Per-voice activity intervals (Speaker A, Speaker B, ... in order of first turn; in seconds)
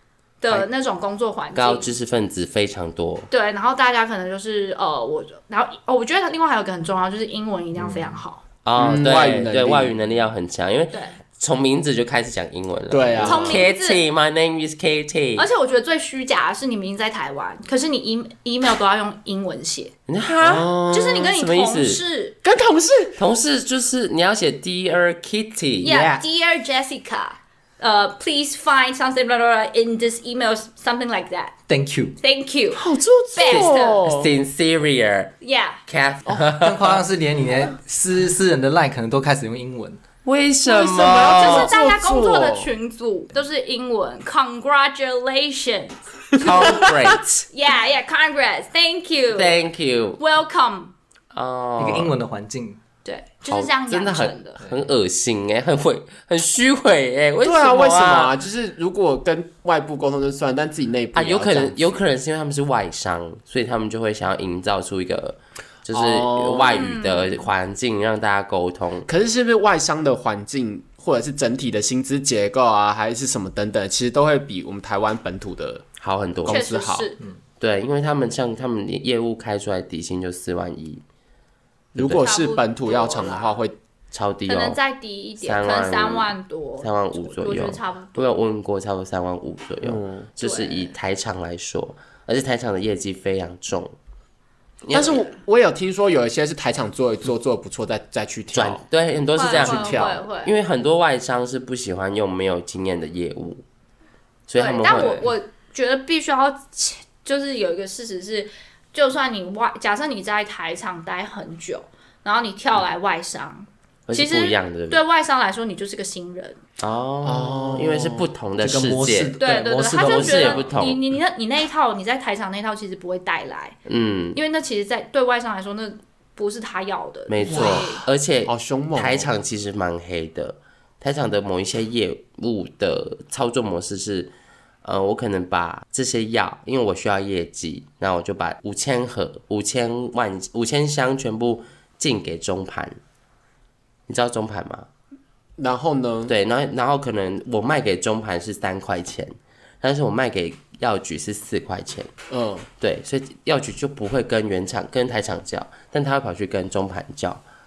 Speaker A: 0.4-1.9, 3.3-8.4, 10.9-11.2, 13.2-14.0, 15.4-19.9, 20.9-22.4, 25.8-31.6, 32.2-34.1, 35.4-35.8, 41.1-46.9, 47.5-49.7, 50.2-50.9, 53.0-54.6, 66.7-67.5, 76.5-77.2, 82.0-83.6, 84.5-88.2, 90.4-90.9, 99.3-100.5, 104.5-116.6, 119.4-123.8, 124.3-128.1
Speaker B: 1.5-3.3, 8.6-15.4, 20.1-22.0, 23.2-26.0, 33.4-35.3, 35.9-36.9, 40.2-41.7, 46.4-47.5, 49.3-50.2, 51.3-52.1, 53.5-58.3, 61.1-69.1, 76.0-76.6, 77.6-81.0, 84.1-84.8, 85.4-93.9, 94.8-95.2, 98.5-103.6, 104.5-105.3, 114.1-115.0, 116.8-119.3, 120.0-121.0, 123.8-124.4, 127.3-134.3, 134.8-143.0, 144.1-144.9, 146.3-152.1, 152.8-157.4
Speaker C: 8.8-9.9, 12.9-13.7, 20.4-21.3, 22.4-23.2, 32.7-34.3, 40.6-42.7, 46.6-47.0, 57.4-62.0, 65.9-66.9, 69.1-75.9, 76.4-77.1, 82.0-83.7, 89.8-90.3, 94.9-98.8, 99.4-100.2, 117.2-118.3, 127.5-129.3, 145.6-146.3, 152.3-152.7
Speaker D: 31.7-32.1, 36.3-40.0, 51.8-52.8, 118.6-120.7